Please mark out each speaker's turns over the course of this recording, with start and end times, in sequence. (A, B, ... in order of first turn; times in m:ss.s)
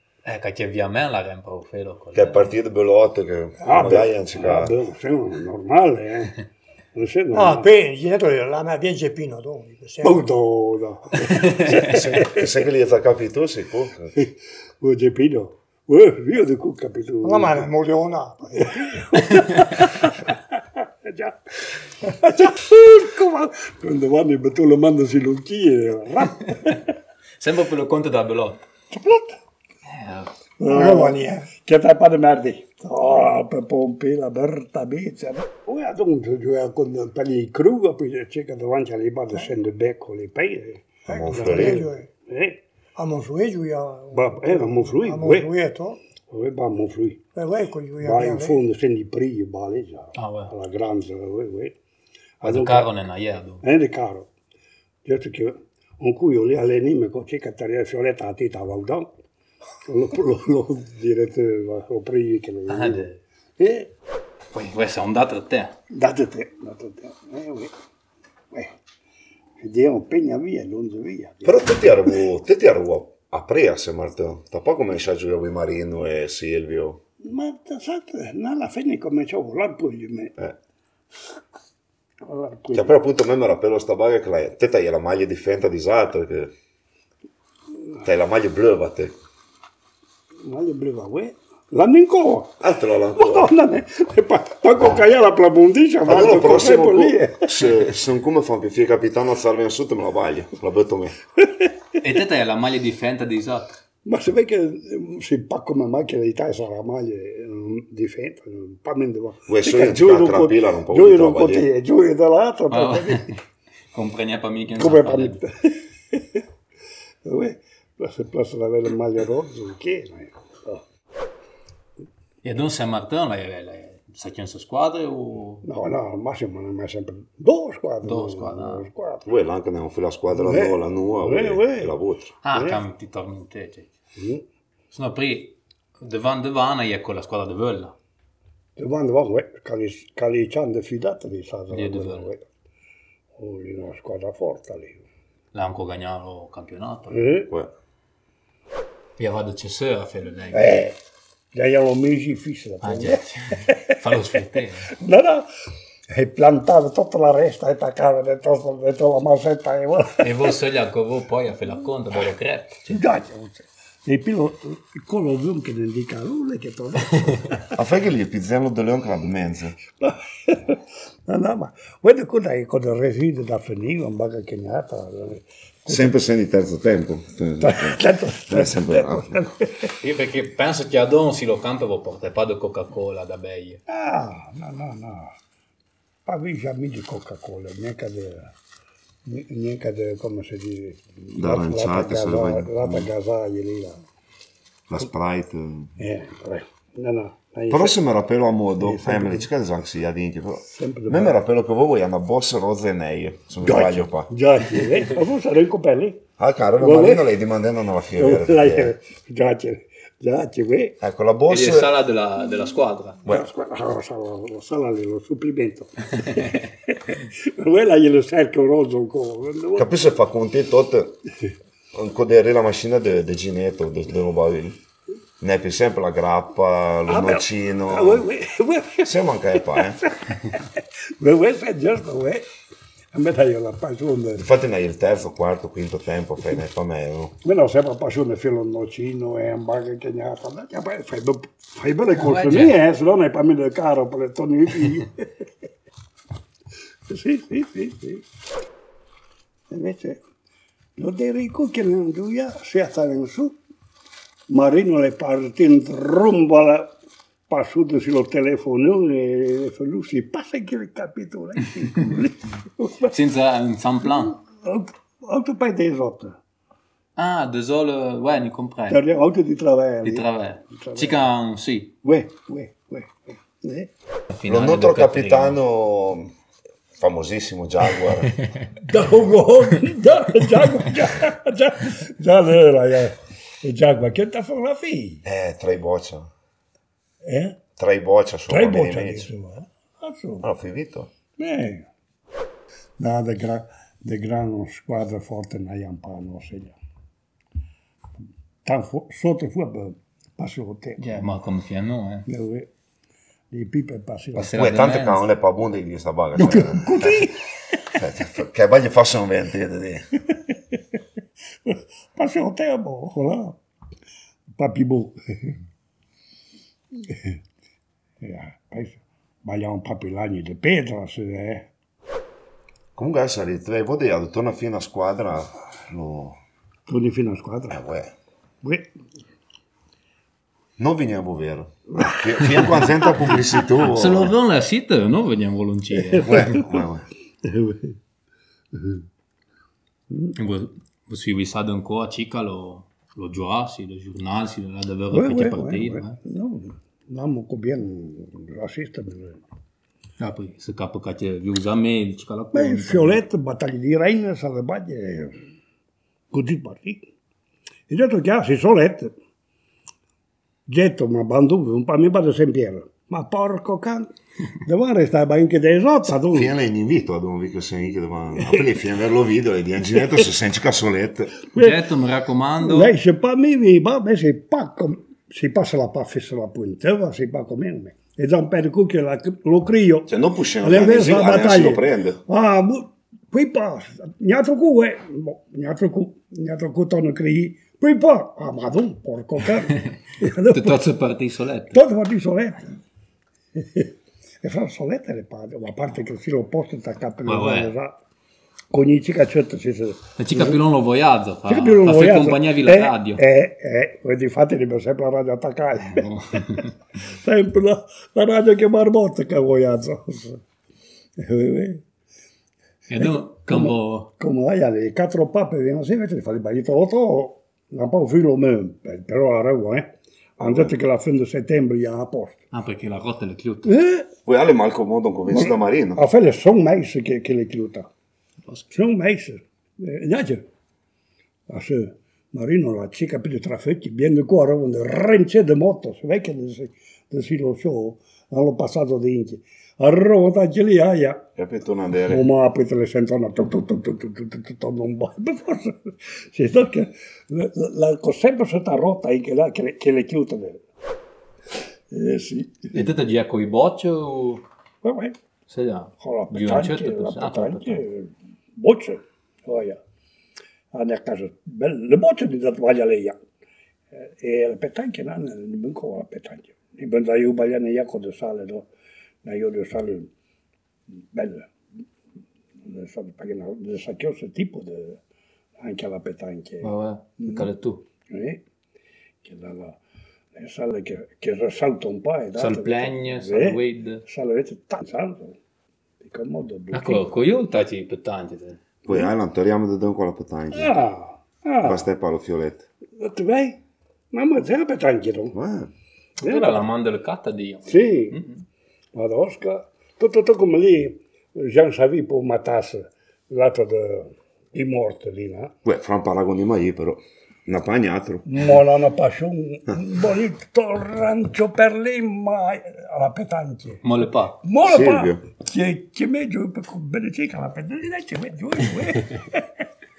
0:00.2-0:02.5 A
0:02.1-0:04.7 B
0:03.6-0:07.7 C
0:07.3-0:10.3 D
0:10.0-0:12.4 C
0:11.4-0:12.0 A
0:11.7-0:14.1 B
0:14.1-0:17.6 C
0:17.2-0:19.0 D
0:18.6-0:21.4 C
0:22.0-0:26.8 C
0:27.4-0:28.6 A
0:28.9-0:29.4 C
0:29.8-0:30.3 A
0:30.6-0:42.6 C
0:30.7-0:31.5 D
0:41.0-0:42.1 D
0:41.1-0:41.9 B
0:43.0-0:46.0 D
0:44.1-0:45.5 C
0:46.3-0:47.2 C
0:47.3-0:48.6 D
0:48.0-0:51.8 C
0:50.2-0:50.5 A
0:52.4-0:52.9 C
0:52.4-0:53.6 A
0:53.6-0:54.3 C
0:55.0-0:59.1 C
0:59.9-1:03.0 C
1:02.7-1:03.2 A
1:03.6-1:03.9 C
1:04.5-1:05.7 A
1:05.9-1:07.7 C
1:09.6-1:11.9 C
1:11.4-1:17.0 B
1:17.2-1:20.3 C
1:22.2-1:22.9 C
1:22.7-1:26.5 B
1:28.0-1:29.1 B
1:30.4-1:32.6 C
1:32.6-1:33.5 B
1:33.1-1:37.5 C
1:36.0-1:41.1 B
1:42.0-1:43.7 A
1:44.0-1:53.3 C
1:49.5-1:51.7 B
1:52.7-1:53.3 A
1:53.9-1:55.4 A
1:54.8-1:56.4 C
1:57.2-2:00.8 C
2:02.4-2:05.6 A
2:05.6-2:09.2 C
2:08.0-2:08.9 A
2:09.2-2:12.3 B
2:10.4-2:11.9 C
2:12.4-2:13.9 A
2:12.5-2:12.8 C
2:14.2-2:14.4 C
2:14.9-2:17.9 A
2:18.8-2:22.4 C
2:21.7-2:22.3 A
2:23.4-2:25.0 C
2:25.5-2:27.3 A
2:27.1-2:27.5 C
2:29.2-2:30.7 A
2:30.5-2:31.0 C
2:31.5-2:34.1 C
2:32.8-2:34.9 A
2:34.9-2:35.5 C
2:36.1-2:40.5 C
2:40.2-2:43.0 A
2:42.9-2:47.7 C
2:47.7-2:49.8 B
2:50.0-2:56.1 C
2:55.9-2:59.4 B
2:57.6-2:59.9 C
3:00.0-3:03.8 A
3:03.9-3:05.3 C
3:06.2-3:08.5 C
3:09.2-3:14.0 C
3:11.3-3:13.1 B
3:14.9-3:16.0 B
3:16.0-3:18.0 C
3:17.7-3:24.3 B
3:18.8-3:19.5 C
3:20.6-3:21.4 C
3:23.6-3:26.2 C
3:26.4-3:28.9 B
3:26.8-3:27.3 C
3:28.2-3:31.0 C
3:31.0-3:32.0 B
3:31.5-3:33.2 A
3:33.3-3:39.9 C
3:39.8-3:41.2 B
3:41.9-3:44.8 B
3:45.4-3:48.3 B
3:47.1-3:49.1 C
3:49.0-3:50.0 B
3:49.7-3:52.5 C
3:53.1-3:54.4 C
3:54.4-3:57.3 B
3:57.4-4:05.5 C
4:02.1-4:02.8 A
4:07.1-4:08.2 C
4:09.7-4:10.2 C
4:11.0-4:13.6 C
4:14.5-4:16.9 C
4:17.5-4:23.2 C
4:23.1-4:24.4 A
4:24.0-4:26.4 C
4:27.2-4:29.0 A
4:28.9-4:31.2 C
4:30.0-4:31.9 A
4:32.0-4:33.9 C
4:34.3-4:35.6 A
4:34.5-4:36.3 B
4:37.0-4:38.3 B
4:38.8-4:45.2 C
4:45.2-4:46.3 B
4:47.2-4:47.6 C
4:47.8-4:49.3 B
4:48.5-4:50.5 C
4:50.4-4:51.1 B
4:51.4-4:51.9 C
4:53.0-4:56.8 C
4:58.6-5:01.3 C
5:01.0-5:02.3 A
5:02.3-5:02.7 C
5:03.5-5:04.6 C
5:04.4-5:05.2 A
5:04.5-5:07.3 B
5:06.4-5:07.8 C
5:07.9-5:10.0 B
5:11.6-5:13.6 C
5:14.6-5:15.6 C
5:17.0-5:17.4 C
5:18.2-5:21.7 C
5:22.9-5:26.4 B
5:26.9-5:27.8 C
5:27.7-5:28.1 B
5:28.6-5:28.9 C
5:30.8-5:34.3 B
5:32.0-5:32.6 C
5:33.8-5:36.6 A
5:35.9-5:36.6 C
5:36.2-5:37.0 B
5:37.4-5:38.0 C
5:38.7-5:39.0 C
5:40.3-5:46.2 A
5:45.1-5:49.4 C
5:50.2-5:53.2 A
5:52.5-5:55.3 C
5:56.3-5:57.0 C
5:57.9-5:59.1 C
6:00.7-6:04.1 C
6:04.6-6:06.5 C
6:06.3-6:11.3 B
6:11.5-6:11.9 C
6:11.6-6:12.9 A
6:12.6-6:30.9 C
6:20.1-6:22.2 B
6:30.4-6:31.8 A
6:31.7-6:32.8 C
6:33.6-6:33.9 C
6:34.4-6:38.0 C
6:37.2-6:37.7 A
6:38.7-6:40.6 C
6:40.2-6:43.2 A
6:41.5-6:50.4 C
6:45.9-6:46.7 A
6:51.2-6:51.8 C
6:52.9-6:54.1 A
6:53.0-7:02.4 C
7:00.4-7:00.7 B
7:02.5-7:03.7 A
7:03.6-7:04.1 C
7:04.3-7:06.0 B
7:05.3-7:07.9 C
7:08.7-7:10.5 C
7:11.5-7:21.2 C
7:21.4-7:22.3 B
7:22.1-7:30.6 C
7:31.9-7:32.7 C
7:32.7-7:34.4 A
7:34.8-7:35.2 C
7:35.5-7:37.8 A
7:36.0-7:39.8 C
7:40.7-7:43.2 C
7:44.0-7:48.7 C
7:49.2-7:50.1 C
7:51.1-7:51.5 C
7:52.6-7:55.0 C
7:55.6-7:57.5 C
7:56.6-7:57.8 A
7:58.1-7:58.4 C
7:59.2-7:59.8 C
8:00.3-8:05.4 C
8:02.4-8:04.0 A
8:06.0-8:07.0 C
8:06.7-8:08.6 A
8:08.8-8:10.7 B
8:10.5-8:11.8 C
8:11.6-8:12.6 B
8:13.0-8:13.6 C
8:14.1-8:15.4 C
8:15.3-8:15.7 B
8:16.2-8:16.6 C
8:16.2-8:18.4 A
8:17.7-8:18.2 C
8:18.9-8:25.5 C
8:25.6-8:28.2 B
8:28.2-8:33.8 C
8:33.8-8:34.4 A
8:34.4-8:39.6 C
8:34.6-8:35.2 B